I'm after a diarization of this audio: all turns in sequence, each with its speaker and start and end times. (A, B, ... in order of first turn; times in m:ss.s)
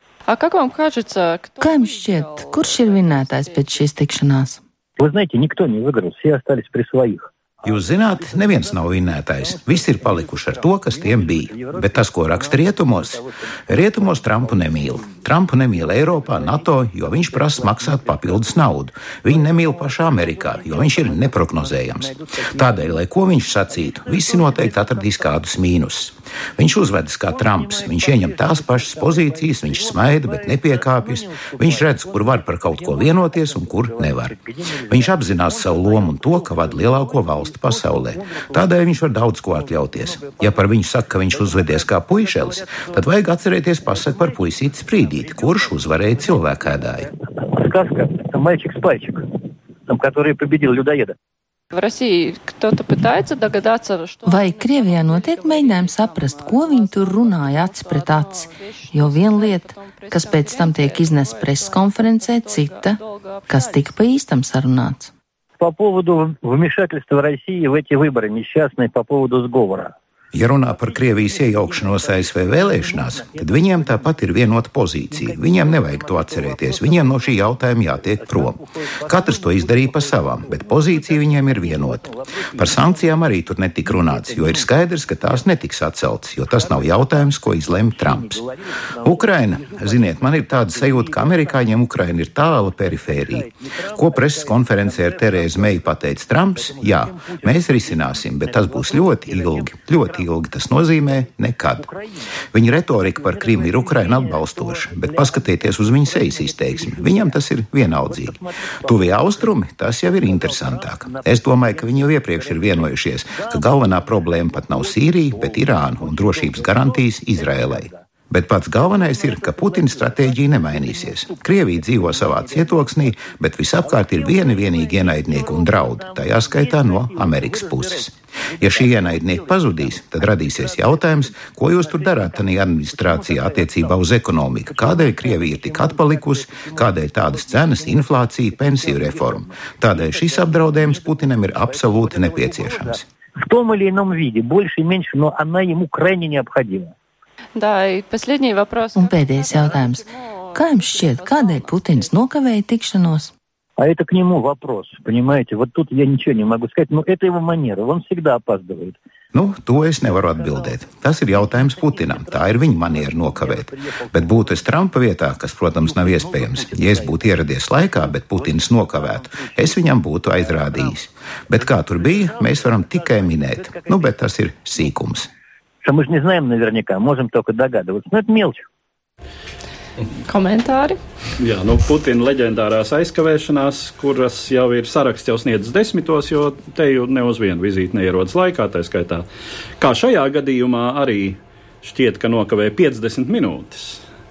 0:00.3-0:03.9 A
0:01.6-0:04.6 B
0:05.0-0:25.8 C
0:07.6-0:34.4 D
0:27.2-0:51.1 C
0:34.9-0:47.1 D
0:51.7-1:04.1 A
0:54.2-1:05.1 B
1:05.6-1:09.9 C
1:10.3-1:28.4 D
1:10.5-1:25.5 C
1:26.5-1:31.8 C
1:29.0-1:41.8 D
1:32.7-1:58.1 C
1:42.5-2:23.0 D
1:58.7-2:26.9 C
2:27.6-2:32.2 A
2:28.9-2:33.3 B
2:33.8-2:39.0 C
2:39.3-2:55.3 D
2:39.8-2:44.8 C
2:45.8-2:54.3 C
2:55.8-2:58.6 C
3:00.3-3:01.0 A
3:01.4-3:09.2 E
3:09.8-3:14.0 E